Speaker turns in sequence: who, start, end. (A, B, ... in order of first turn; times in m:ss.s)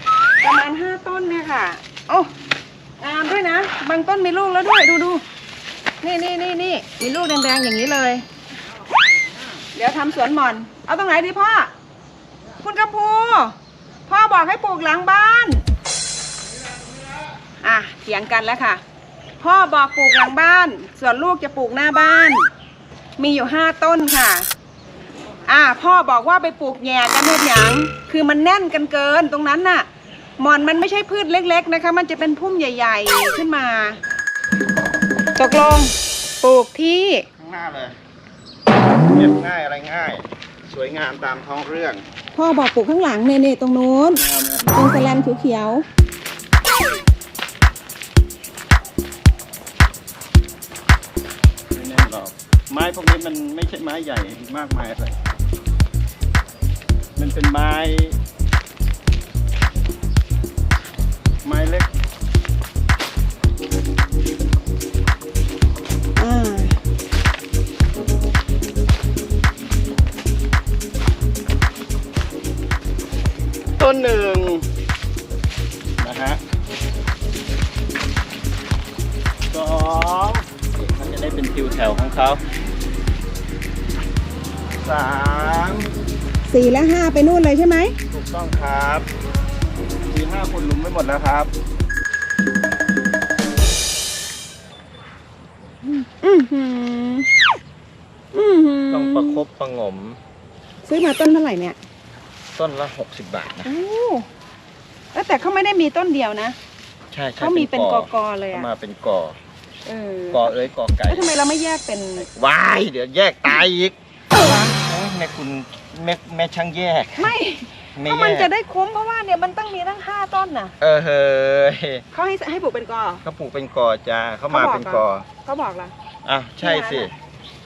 0:00.4-0:02.3 A
0:03.0-0:05.2 A
0:06.0-0:08.2 A
0:09.7-0:11.7 A
0:12.6-0:15.6 A
0:17.6-0:18.8 A
0:19.4-0:22.5 A
0:23.2-0:24.5 A
0:25.5-0:29.9 A
0:30.4-0:34.0 A
0:35.4-0:37.3 A
0:37.4-0:38.0 B
0:39.0-0:42.0 B
0:42.3-0:45.8 A
0:44.2-0:44.8 B
0:51.7-0:55.2 B
0:57.2-0:58.2 B
1:01.4-1:01.9 B
1:06.2-1:06.8 A
1:13.8-1:14.7 B
1:16.0-1:16.4 B
1:19.5-1:22.4 B
1:24.8-1:25.9 B
1:26.5-1:28.0 A
1:28.1-1:29.1 B
1:30.1-1:31.5 B
1:35.8-1:37.3 A
1:38.3-1:39.4 A
1:38.9-1:40.2 B
1:40.9-1:41.8 A
1:42.6-1:43.7 B
1:43.6-1:44.3 A
1:45.1-1:46.6 A
1:47.1-1:49.4 B
1:47.4-1:48.7 A
1:49.8-1:52.3 A
1:50.3-1:51.3 B
1:52.2-1:54.0 B
1:54.3-1:54.8 A
1:54.8-1:57.3 B
1:57.2-2:00.8 A
1:58.0-1:58.5 B
2:00.8-2:02.0 B
2:02.1-2:03.2 A
2:03.2-2:05.3 B
2:04.5-2:05.9 A
2:06.2-2:07.1 B
2:06.6-2:07.1 A